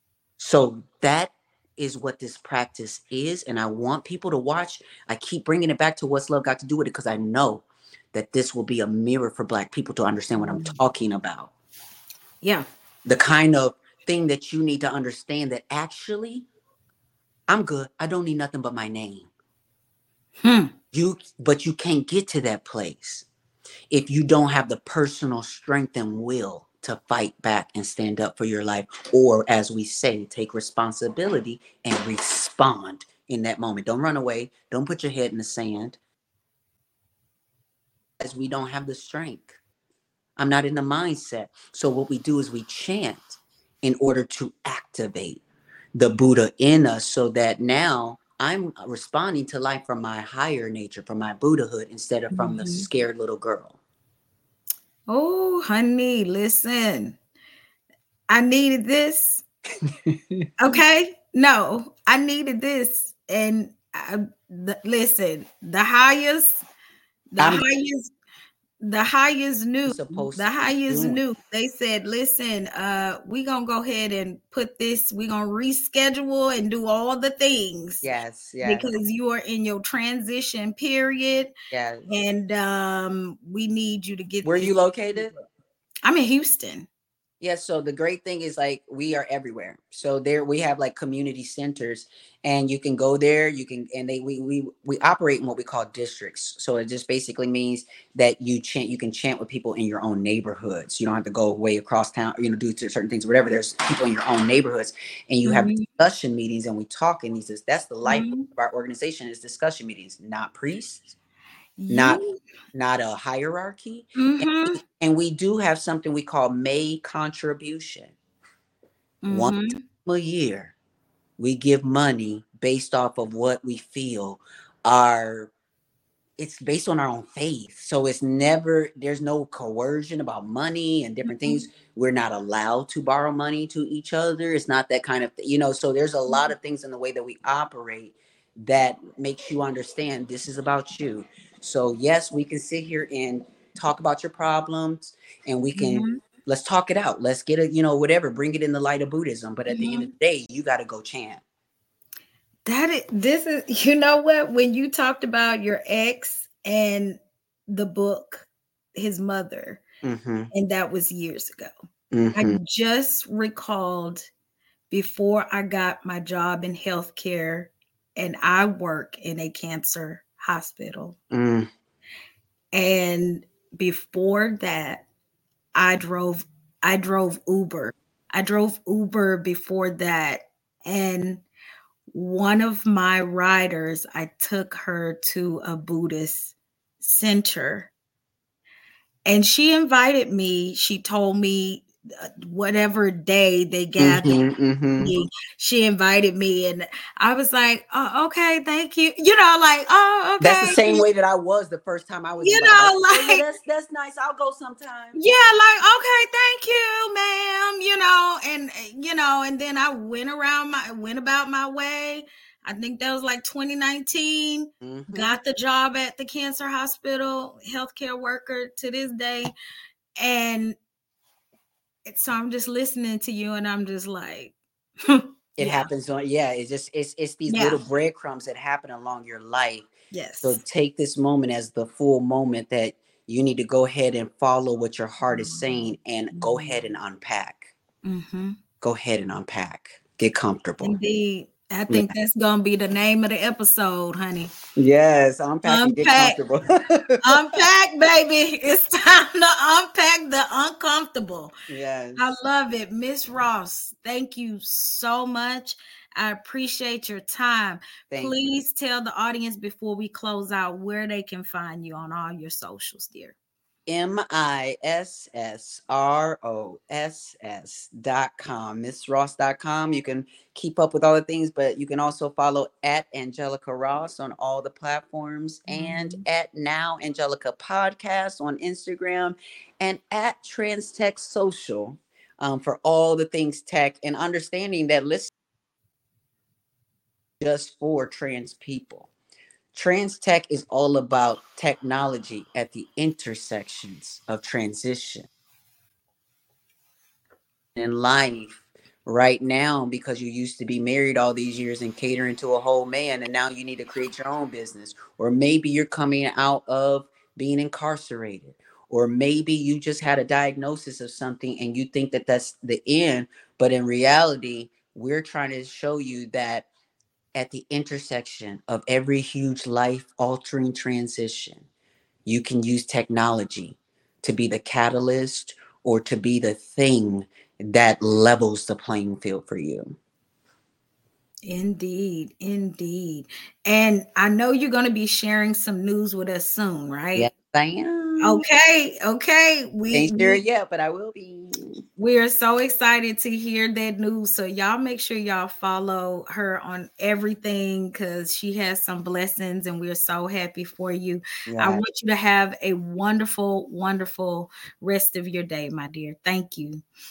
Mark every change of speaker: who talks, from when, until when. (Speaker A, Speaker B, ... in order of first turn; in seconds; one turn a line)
Speaker A: 0.4-11.5
Speaker B: 10.4-10.8
Speaker A: 13.0-16.4
Speaker A: 17.5-19.3
Speaker B: 20.4-20.7
Speaker A: 20.9-23.2
Speaker A: 23.9-36.0
Speaker A: 38.2-39.6
Speaker A: 40.4-45.4
Speaker A: 45.9-53.8
Speaker B: 52.3-52.9
Speaker B: 55.1-57.2
Speaker B: 58.3-59.4
Speaker A: 59.8-60.5
Speaker B: 60.6-66.6
Speaker B: 67.3-68.1
Speaker A: 67.4-67.6
Speaker B: 68.8-78.0
Speaker A: 69.8-71.2
Speaker A: 78.0-78.9
Speaker B: 78.6-81.5
Speaker A: 81.7-82.1
Speaker B: 82.1-85.4
Speaker A: 84.4-85.3
Speaker B: 86.0-86.9
Speaker A: 87.4-111.1
Speaker B: 105.4-105.9
Speaker B: 108.0-108.5
Speaker B: 111.8-112.4
Speaker A: 111.9-112.2
Speaker A: 112.7-118.1
Speaker B: 114.2-114.8
Speaker B: 119.2-119.8
Speaker A: 119.3-120.7
Speaker A: 121.4-125.5
Speaker A: 126.4-151.4
Speaker B: 131.2-131.7
Speaker B: 145.7-146.2
Speaker B: 149.7-150.1
Speaker B: 152.7-159.8
Speaker A: 160.0-160.5
Speaker B: 160.5-161.7
Speaker A: 162.1-162.6
Speaker B: 162.3-164.3
Speaker B: 164.9-171.2
Speaker A: 171.3-171.7
Speaker B: 172.7-175.1
Speaker B: 175.7-181.4
Speaker B: 182.1-187.9
Speaker B: 189.2-194.4
Speaker A: 194.0-195.1
Speaker B: 195.0-201.0
Speaker A: 200.4-205.2
Speaker B: 202.4-203.4
Speaker B: 205.2-219.5
Speaker A: 214.8-215.3
Speaker B: 220.2-220.8
Speaker B: 222.1-225.9
Speaker A: 225.6-229.9
Speaker B: 227.5-227.8
Speaker B: 230.1-230.6
Speaker A: 230.4-237.7
Speaker B: 235.2-236.8
Speaker B: 238.0-238.6
Speaker A: 238.8-240.9
Speaker B: 240.8-244.5
Speaker A: 244.8-247.6
Speaker B: 245.6-246.4
Speaker B: 247.2-251.5
Speaker A: 251.7-252.2
Speaker B: 252.2-263.3
Speaker A: 258.1-258.4
Speaker A: 263.9-285.3
Speaker B: 275.7-276.2
Speaker A: 287.4-289.1
Speaker A: 289.7-295.3
Speaker A: 297.8-316.7
Speaker A: 317.4-321.6
Speaker A: 322.2-330.0
Speaker B: 331.4-337.3
Speaker A: 337.1-338.4
Speaker B: 338.2-340.4
Speaker A: 339.9-341.8
Speaker B: 342.0-356.8
Speaker A: 351.5-351.8